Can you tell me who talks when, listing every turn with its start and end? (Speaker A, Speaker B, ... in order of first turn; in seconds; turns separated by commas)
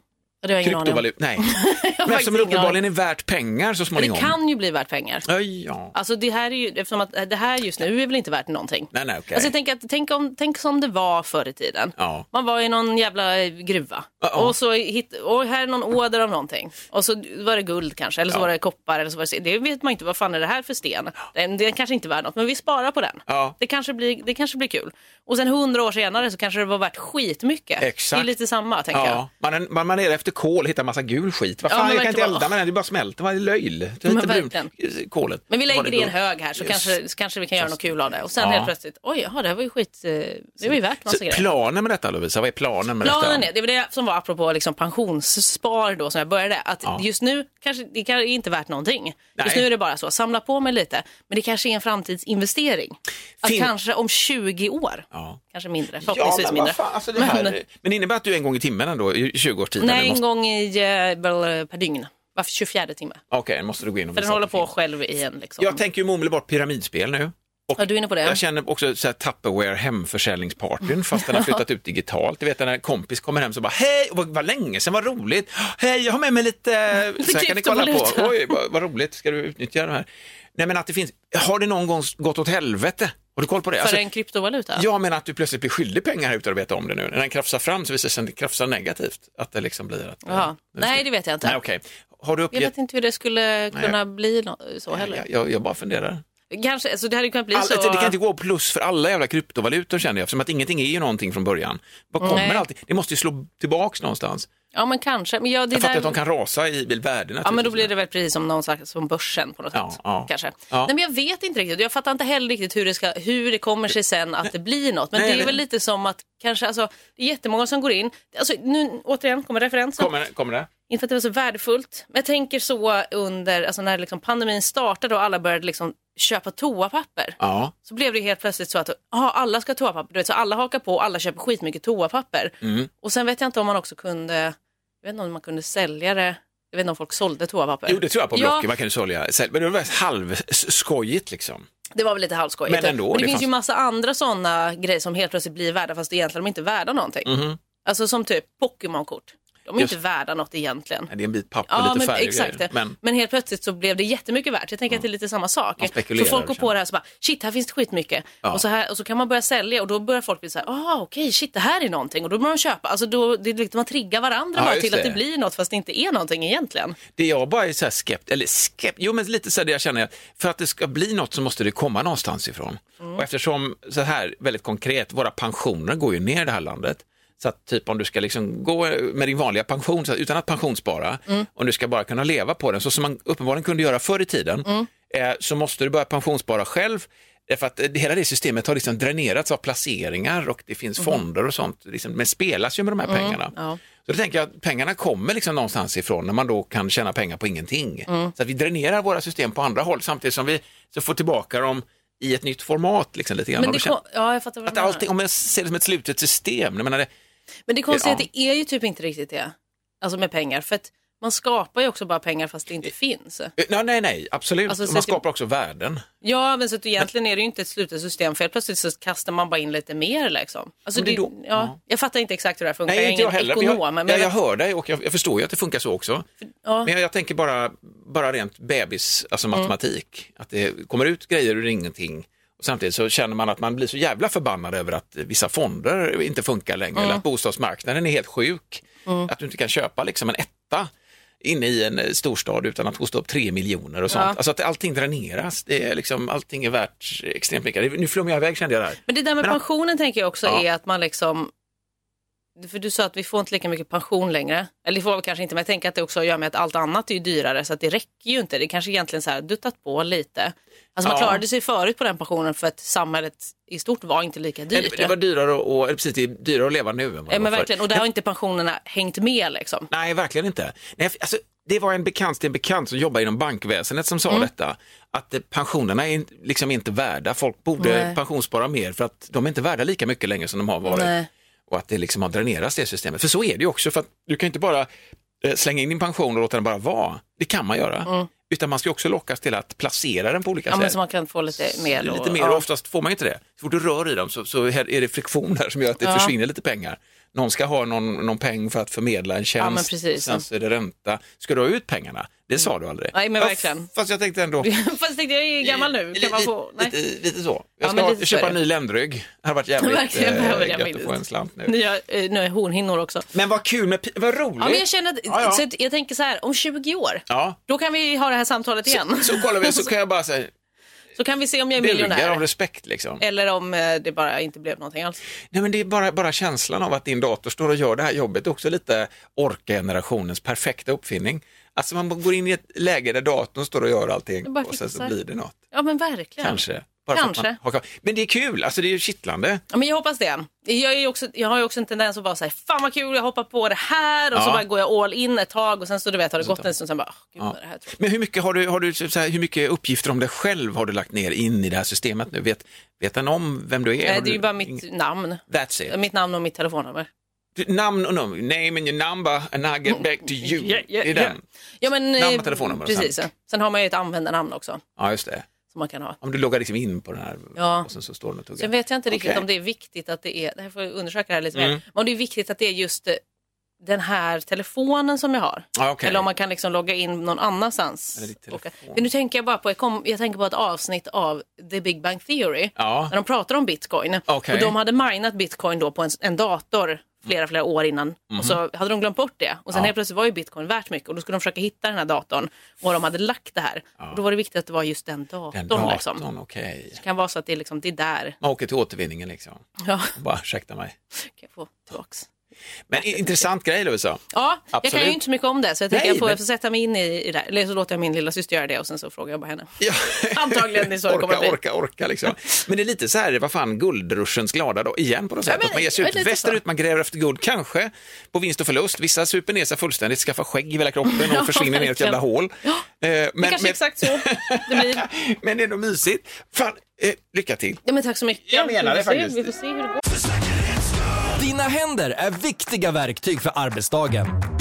Speaker A: 0.4-2.8, Speaker B: 0.6-4.4, Speaker A: 4.0-5.3, Speaker B: 5.3-5.9, Speaker A: 5.9-29.2, Speaker B: 8.9-9.5, Speaker B: 12.0-12.3, Speaker B: 14.2-14.6, Speaker B: 23.3-23.6, Speaker B: 27.8-28.3, Speaker B: 28.9-37.0, Speaker A: 31.7-32.5, Speaker A: 34.1-34.7, Speaker A: 35.5-41.5, Speaker B: 37.6-38.7, Speaker B: 40.6-43.5, Speaker A: 43.0-57.5, Speaker B: 49.4-49.7, Speaker B: 53.4-53.7, Speaker B: 55.1-55.4, Speaker B: 56.0-60.2, Speaker A: 59.8-63.2, Speaker B: 63.3-64.7, Speaker A: 64.2-65.8, Speaker B: 65.6-84.0, Speaker A: 67.8-68.4, Speaker A: 71.2-71.6, Speaker A: 77.2-78.5, Speaker A: 83.8-84.9, Speaker B: 84.8-92.7, Speaker A: 90.3-91.6, Speaker A: 92.5-95.2, Speaker B: 94.9-96.2, Speaker A: 96.5-98.2, Speaker B: 97.5-104.5, Speaker A: 102.2-102.7, Speaker A: 104.7-106.2, Speaker B: 105.7-107.9, Speaker A: 107.5-120.1, Speaker B: 109.7-110.9, Speaker B: 115.1-115.6, Speaker B: 120.0-120.7, Speaker A: 120.9-138.7, Speaker B: 127.4-127.7, Speaker B: 132.6-132.9, Speaker B: 137.9-141.7, Speaker A: 141.9-151.1, Speaker B: 142.7-143.5, Speaker B: 147.2-147.6, Speaker B: 151.1-152.9, Speaker A: 151.7-167.0, Speaker B: 155.8-156.7, Speaker B: 164.6-165.2, Speaker B: 167.1-193.5, Speaker A: 193.1-193.8, Speaker B: 194.0-204.0, Speaker A: 198.1-198.3, Speaker A: 203.6-205.1, Speaker B: 204.7-207.1, Speaker A: 207.7-213.5, Speaker B: 207.9-208.3, Speaker B: 213.6-216.1, Speaker A: 214.7-215.2, Speaker A: 216.2-224.3, Speaker B: 220.9-221.7, Speaker B: 222.9-226.3, Speaker A: 226.6-226.9, Speaker B: 226.8-240.9, Speaker A: 237.0-237.2, Speaker B: 241.4-249.6, Speaker A: 244.1-244.4, Speaker A: 249.1-251.5, Speaker A: 252.6-265.1, Speaker B: 261.0-261.4, Speaker B: 264.7-268.0, Speaker A: 267.3-269.9, Speaker B: 269.9-281.1, Speaker A: 277.8-278.2, Speaker A: 280.9-281.3, Speaker B: 281.7-284.9, Speaker B: 285.4-291.0, Speaker A: 290.7-292.6, Speaker B: 291.6-304.7, Speaker A: 296.0-296.3, Speaker A: 299.6-300.4, Speaker A: 303.1-303.9, Speaker A: 304.6-307.0, Speaker B: 305.6-311.8, Speaker A: 307.8-308.6, Speaker A: 309.8-313.3, Speaker B: 313.3-315.6, Speaker A: 314.6-319.9, Speaker B: 317.3-317.6, Speaker B: 318.9-320.5, Speaker A: 321.2-322.4, Speaker B: 321.8-323.2, Speaker A: 323.2-325.2, Speaker B: 325.5-335.6, Speaker A: 334.4-335.1, Speaker A: 335.7-337.6, Speaker B: 336.4-339.6, Speaker A: 339.7-348.0, Speaker B: 344.3-344.6, Speaker B: 346.4-346.7, Speaker B: 347.4-354.8, Speaker A: 354.0-357.1, Speaker B: 355.5-356.0, Speaker B: 357.6-361.4, Speaker A: 360.0-364.8, Speaker B: 362.2-363.2, Speaker B: 365.0-365.5, Speaker A: 365.7-366.2, Speaker B: 366.2-369.5, Speaker A: 367.6-367.9, Speaker A: 368.6-373.2, Speaker B: 371.6-371.8, Speaker A: 373.8-396.2, Speaker B: 375.8-376.3, Speaker B: 378.2-379.0, Speaker B: 382.8-383.1, Speaker B: 384.3-384.8, Speaker B: 388.3-388.6, Speaker B: 395.5-397.0, Speaker A: 396.9-398.4, Speaker B: 398.4-401.0, Speaker A: 399.8-400.1, Speaker A: 401.2-402.3, Speaker B: 402.9-404.2, Speaker A: 403.0-403.4, Speaker A: 404.3-409.7, Speaker B: 404.7-405.2, Speaker B: 405.9-406.4, Speaker B: 409.8-427.8, Speaker A: 410.3-411.6, Speaker A: 415.5-416.6, Speaker A: 421.1-422.9, Speaker A: 423.4-425.1, Speaker A: 427.9-430.0, Speaker B: 428.5-429.5, Speaker C: 431.3-434.3